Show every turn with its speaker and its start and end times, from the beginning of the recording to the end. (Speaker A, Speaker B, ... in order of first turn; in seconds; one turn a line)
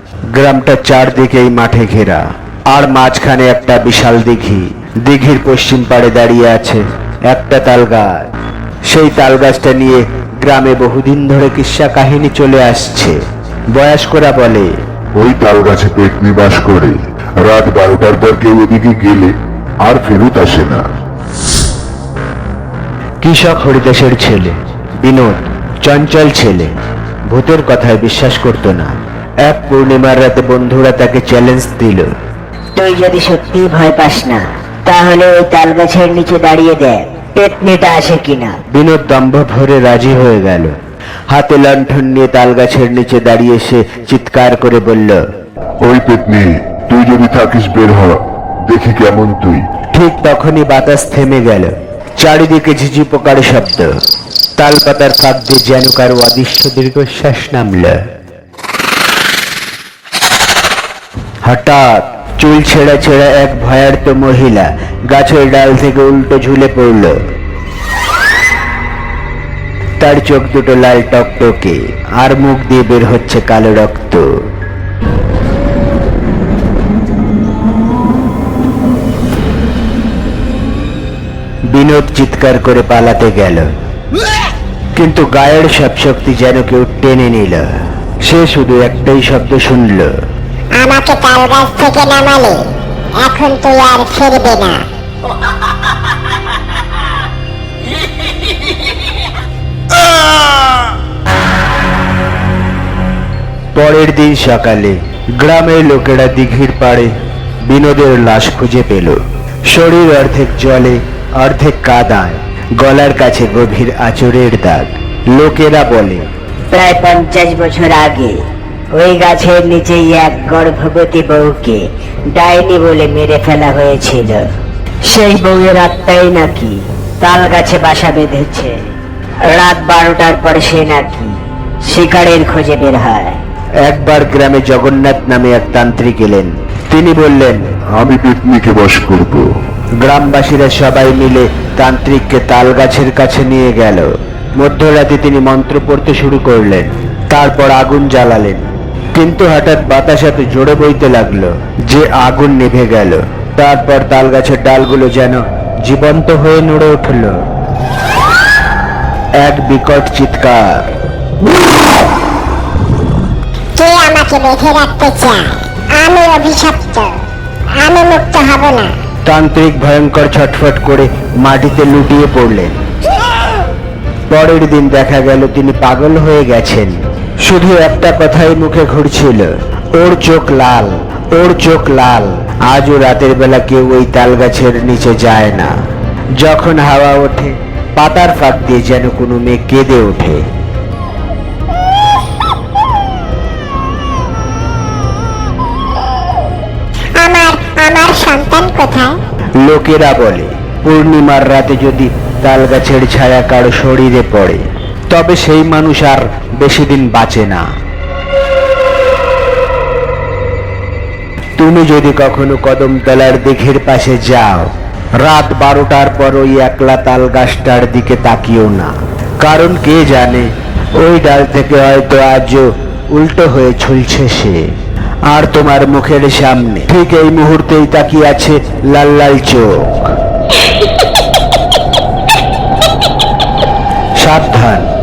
Speaker A: 0.3-8.1
Speaker A: 8.9-13.2
Speaker A: 13.7-14.7
Speaker B: 15.1-20.9
Speaker A: 23.2-26.7
Speaker A: 27.3-32.1
Speaker C: 32.8-38.6
Speaker A: 38.7-40.8
Speaker A: 41.3-45.2
Speaker B: 45.8-49.6
Speaker A: 49.9-54.0
Speaker A: 54.6-58.0
Speaker A: 61.4-67.2
Speaker A: 70.0-74.3
Speaker A: 81.7-83.7
Speaker A: 85.0-87.7
Speaker A: 88.2-90.1
Speaker D: 90.7-92.6
Speaker D: 93.2-94.8
Speaker A: 103.7-107.1
Speaker A: 107.7-116.3
Speaker C: 116.7-118.4
Speaker C: 118.9-124.5
Speaker C: 125.0-128.8
Speaker C: 129.4-133.4
Speaker A: 133.8-137.8
Speaker B: 137.9-139.5
Speaker A: 140.0-157.4
Speaker A: 159.4-160.9
Speaker D: 163.8-167.2
Speaker D: 167.7-168.9
Speaker A: 169.2-172.8
Speaker A: 174.3-185.7
Speaker A: 186.4-190.4
Speaker D: 197.2-199.2
Speaker A: 199.6-207.6
Speaker A: 211.6-224.7
Speaker A: 225.3-230.1
Speaker A: 234.2-234.9